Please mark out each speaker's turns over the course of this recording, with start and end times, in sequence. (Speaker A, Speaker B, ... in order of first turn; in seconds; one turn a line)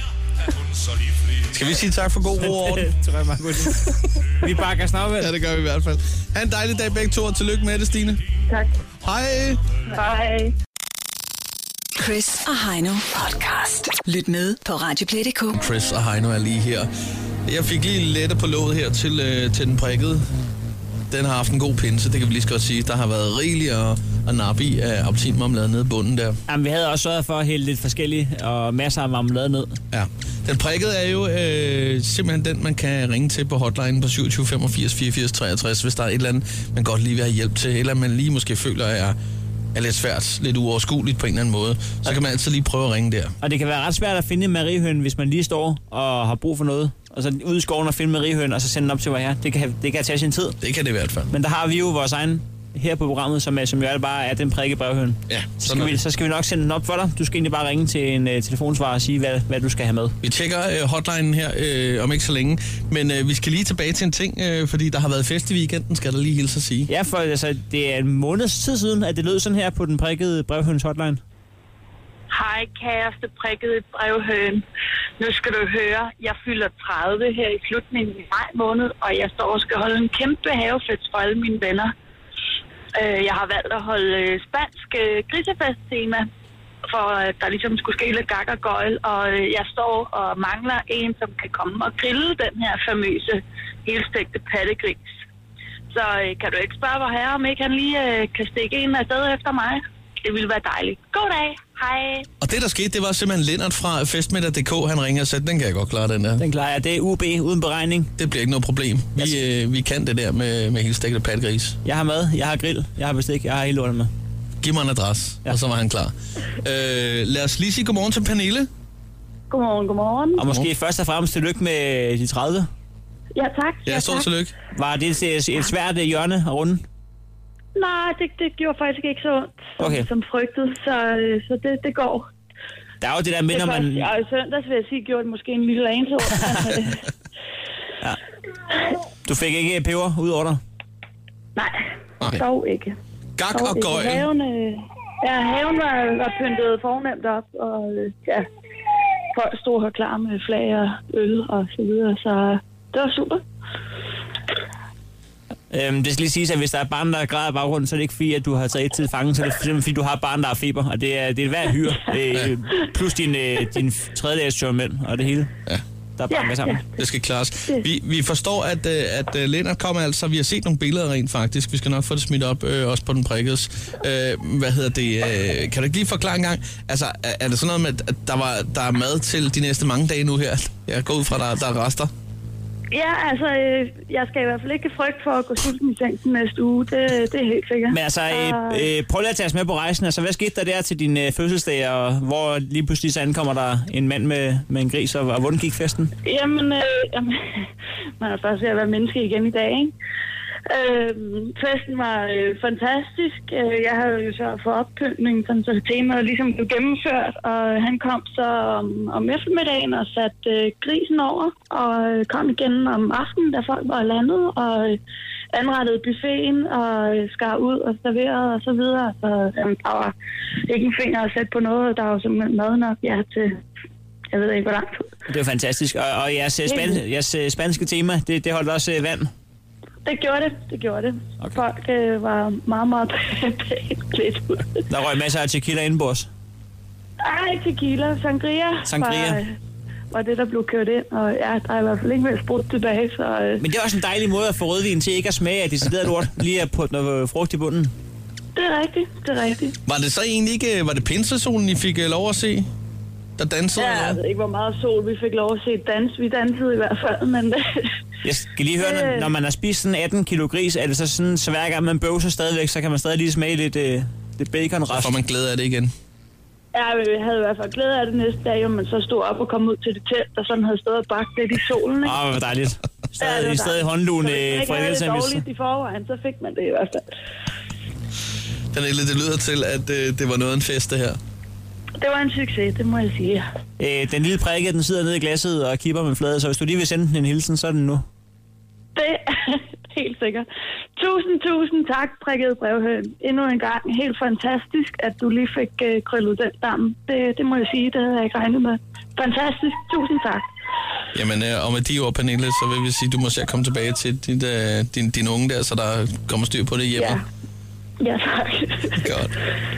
Speaker A: 1.4-2.9
Speaker B: 2.4-5.3
Speaker A: 5.2-8.2
Speaker A: 9.0-9.6
Speaker C: 12.0-15.6
Speaker A: 15.5-16.9
Speaker A: 17.5-20.3
Speaker A: 21.1-26.4
Speaker B: 26.5-29.8
Speaker A: 29.9-39.2
Speaker A: 39.7-43.4
Speaker B: 43.4-50.6
Speaker A: 50.6-51.3
Speaker B: 51.3-60.2
Speaker A: 55.3-56.0
Speaker A: 60.2-66.9
Speaker B: 66.9-71.2
Speaker D: 72.3-74.6
Speaker D: 75.2-81.9
Speaker D: 83.0-86.3
Speaker D: 86.9-95.1
Speaker D: 95.9-102.3
Speaker A: 102.4-106.4
Speaker B: 106.4-108.1
Speaker A: 108.2-111.8
Speaker B: 111.8-114.1
Speaker A: 114.6-118.7
Speaker D: 119.5-120.4
Speaker B: 120.3-122.7
Speaker D: 123.3-124.3
Speaker A: 123.9-124.5
Speaker B: 124.7-126.8
Speaker D: 127.8-132.3
Speaker B: 129.8-130.1
Speaker B: 133.0-134.1
Speaker D: 133.5-137.0
Speaker B: 136.4-136.8
Speaker B: 139.2-140.6
Speaker D: 141.6-143.0
Speaker A: 143.4-144.3
Speaker D: 143.5-148.5
Speaker D: 149.3-153.4
Speaker B: 155.7-165.5
Speaker B: 166.2-166.8
Speaker D: 166.3-167.0
Speaker A: 167.0-182.1
Speaker D: 182.9-188.9
Speaker B: 187.9-196.1
Speaker D: 196.2-199.9
Speaker D: 200.7-215.0
Speaker D: 215.5-220.1
Speaker D: 220.6-223.6
Speaker D: 224.3-225.1
Speaker B: 225.3-229.3
Speaker D: 226.7-227.0
Speaker D: 230.1-234.8
Speaker B: 234.9-236.3
Speaker D: 237.2-239.6
Speaker B: 238.8-239.4
Speaker D: 240.1-243.6
Speaker B: 243.6-247.9
Speaker D: 248.6-249.8
Speaker A: 249.9-252.7
Speaker A: 253.4-254.2
Speaker D: 253.8-257.9
Speaker B: 258.2-265.1
Speaker D: 258.8-259.3
Speaker A: 264.9-265.9
Speaker D: 266.7-272.2
Speaker B: 272.0-275.4
Speaker D: 273.2-277.1
Speaker A: 278.7-281.2
Speaker D: 282.0-283.5
Speaker B: 283.8-288.1
Speaker D: 289.0-290.5
Speaker D: 291.0-300.5
Speaker A: 301.1-307.2
Speaker D: 308.0-309.1
Speaker A: 309.0-309.4